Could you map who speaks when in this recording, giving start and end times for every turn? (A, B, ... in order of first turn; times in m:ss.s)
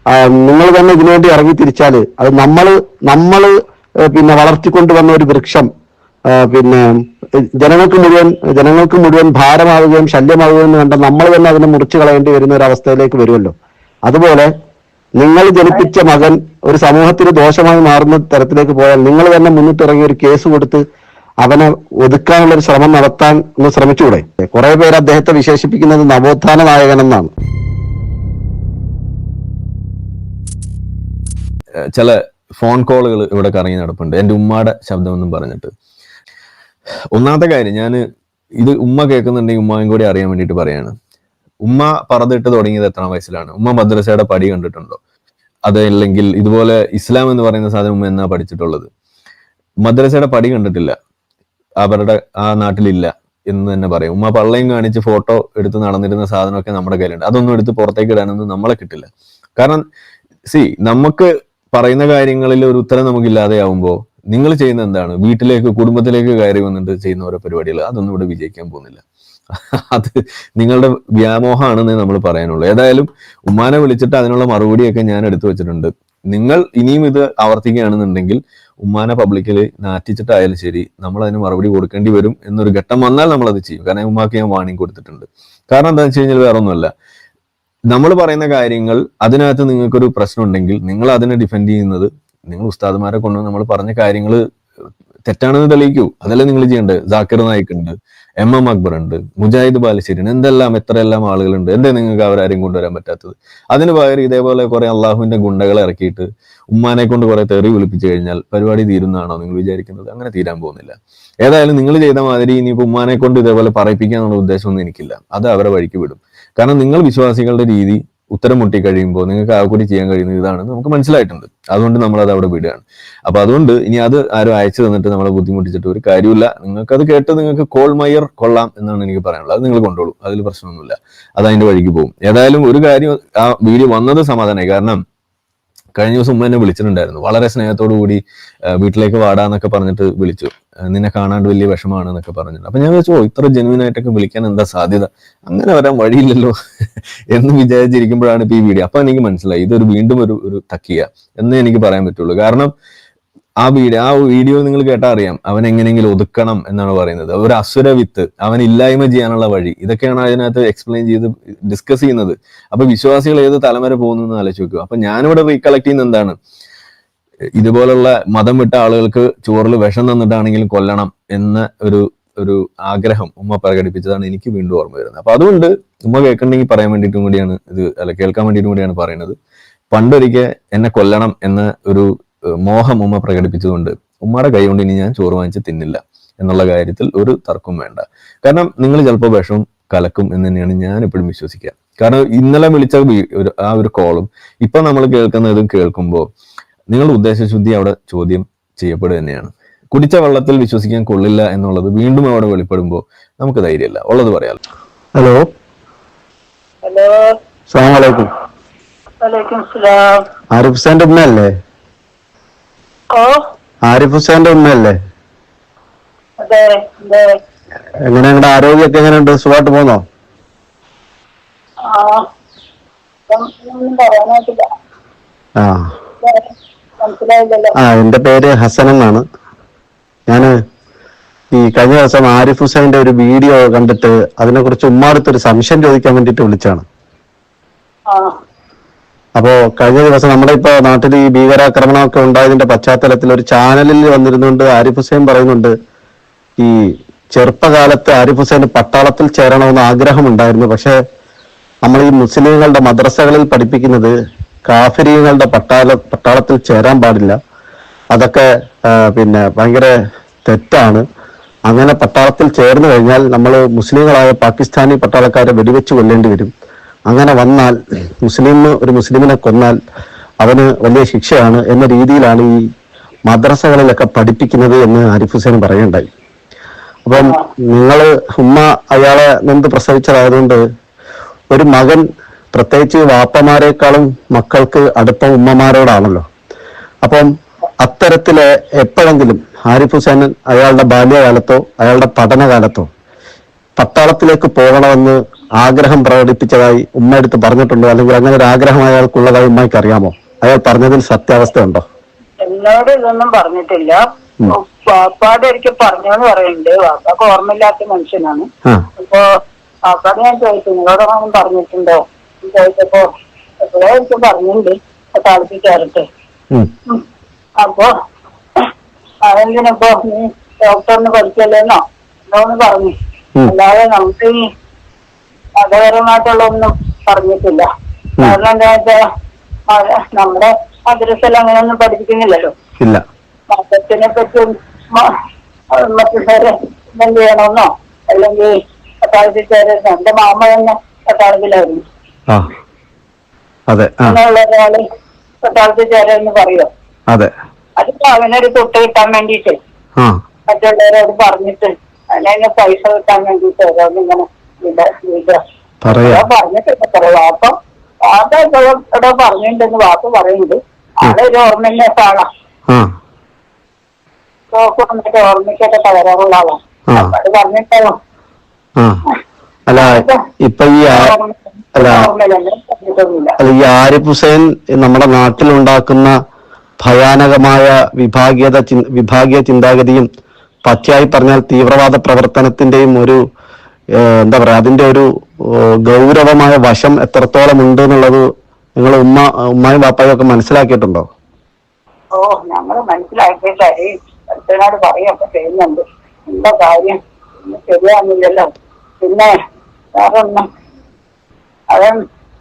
0:00.2-0:03.5 A
0:04.1-0:05.7 A
0:06.4-0:06.9 A
0:07.6-0:13.5 A
0:14.1-0:14.5 A
0:15.2-0:20.8 A
0:21.4-0:27.3 A
0:32.0-0:35.7 B
0:37.2-0:38.0 B
0:38.6-0:40.9 B
0:41.7-0:45.0 B
0:45.7-0:48.9 B
0:49.8-0:51.0 B
0:51.8-0:59.8 B
1:00.5-1:09.0 B
1:09.6-1:26.9 B
1:27.9-1:34.4 B
1:35.3-2:15.0 B
2:16.0-2:18.2 B
2:18.8-2:26.5 B
2:27.3-2:32.7 B
2:33.6-2:46.4 B
2:47.6-2:59.4 B
2:59.9-3:02.1 B
3:02.6-3:16.3 B
3:16.9-3:24.6 B
3:26.9-3:27.1 C
3:27.7-3:28.3 A
3:29.2-3:30.0 C
3:30.5-3:31.5 A
3:33.1-3:33.4 C
3:33.9-3:35.0 A
3:36.4-3:37.2 C
3:38.1-3:40.0 A
3:41.9-3:42.2 C
3:43.3-3:44.6 C
3:45.6-3:45.9 A
3:46.2-3:47.7 C
3:47.8-3:49.2 A
3:51.6-3:56.8 A
3:59.4-4:05.7 A
4:06.6-4:11.0 A
4:11.8-4:14.1 A
4:14.7-4:17.4 A
4:18.1-4:19.9 A
4:20.5-4:21.0 A
4:21.7-4:26.5 A
4:27.1-4:29.8 A
4:30.4-4:32.6 A
4:33.3-4:36.1 A
4:37.1-4:40.6 A
4:37.2-4:37.4 C
4:41.5-4:46.2 A
4:47.0-4:47.3 A
4:47.8-4:52.9 A
4:53.8-5:01.8 A
5:02.4-5:04.0 C
5:04.5-5:08.5 C
5:09.9-5:13.1 C
5:13.6-5:16.0 C
5:17.6-5:17.9 C
5:19.3-5:22.9 C
5:23.5-5:24.3 C
5:25.6-5:27.6 C
5:28.2-5:29.0 C
5:29.7-5:32.5 C
5:33.5-5:35.1 C
5:35.7-5:38.5 C
5:39.0-5:41.8 C
5:43.7-5:44.2 A
5:44.0-5:44.8 C
5:45.4-5:46.7 C
5:47.8-5:49.6 C
5:50.5-5:55.4 C
5:55.8-5:56.2 A
5:56.0-5:57.5 C
5:58.1-6:02.3 C
6:04.5-6:07.9 C
6:09.7-6:11.1 A
6:09.8-6:10.2 C
6:10.9-6:13.4 C
6:11.8-6:12.1 A
6:13.4-6:16.1 A
6:16.8-6:20.1 A
6:20.7-6:23.2 A
6:24.0-6:25.1 A
6:25.9-6:28.2 A
6:28.8-6:31.1 A
6:32.2-6:38.5 C
6:39.0-6:39.3 C
6:40.0-6:40.4 C